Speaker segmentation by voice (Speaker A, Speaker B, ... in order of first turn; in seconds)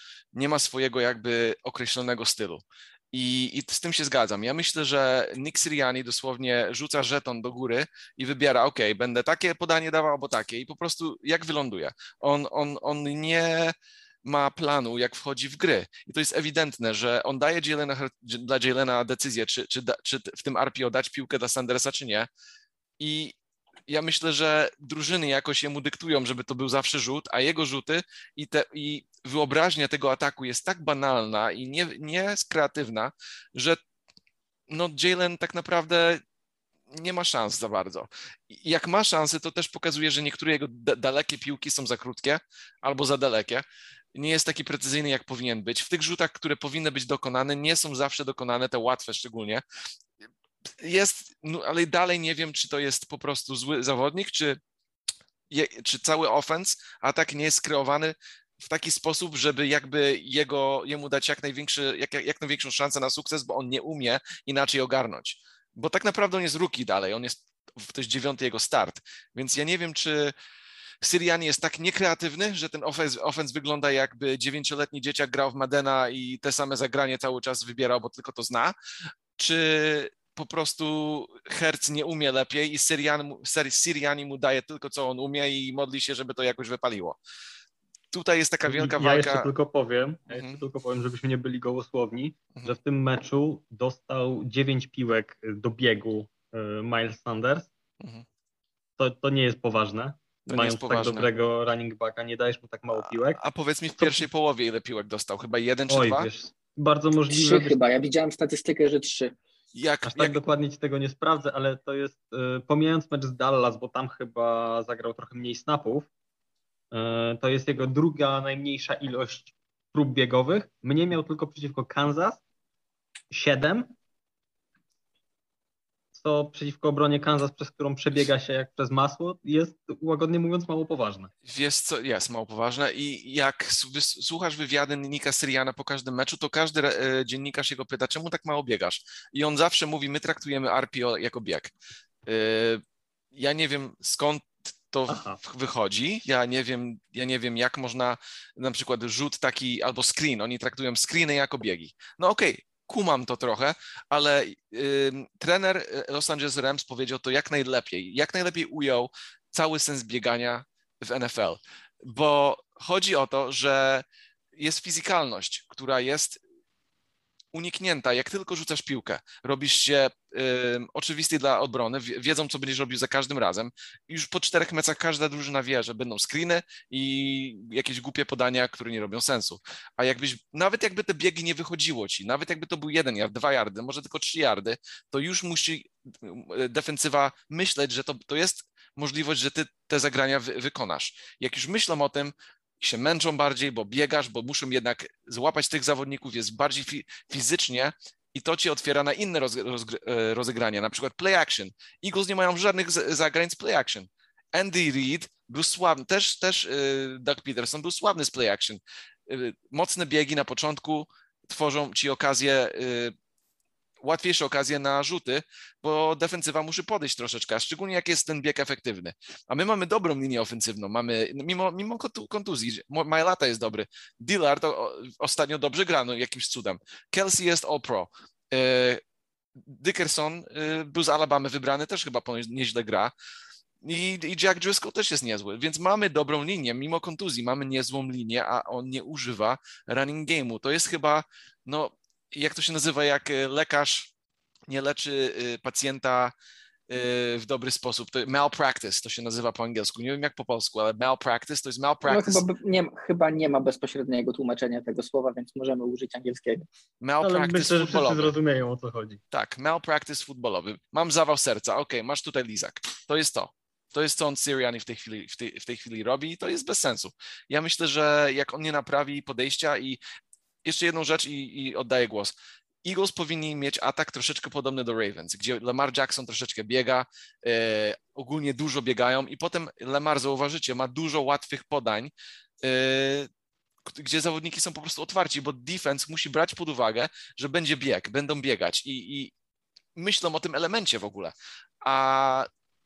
Speaker A: 0.3-13.7, 14.2-22.3, 23.0-23.4, 23.9-33.8, 34.7-36.2, 36.9-43.6, 44.1-49.6, 50.8-54.6, 55.5-70.3, 71.0-78.7, 79.4-87.2, 88.1-89.5, 90.3-90.6, 100.5-101.3, 102.9-106.3, 109.7-110.4, 131.4-141.7, 142.3-142.8, 143.3-164.0, 164.6-166.4, 167.5-213.1, 214.0-229.0, 229.6-233.1, 233.8-244.1, 244.7-246.3, 246.9-252.4, 257.0-258.3, 259.3-270.0, 270.6-282.1, 282.6-283.3, 283.9-289.3, 289.9-292.5
Speaker B: 88.7-97.7, 99.0-103.4, 104.0-104.2, 105.9-107.8, 110.0-116.1, 116.9-122.4, 123.3-123.9, 126.1-131.3, 145.1-145.4, 257.2-259.2
Speaker C: 107.3-109.3, 252.0-256.6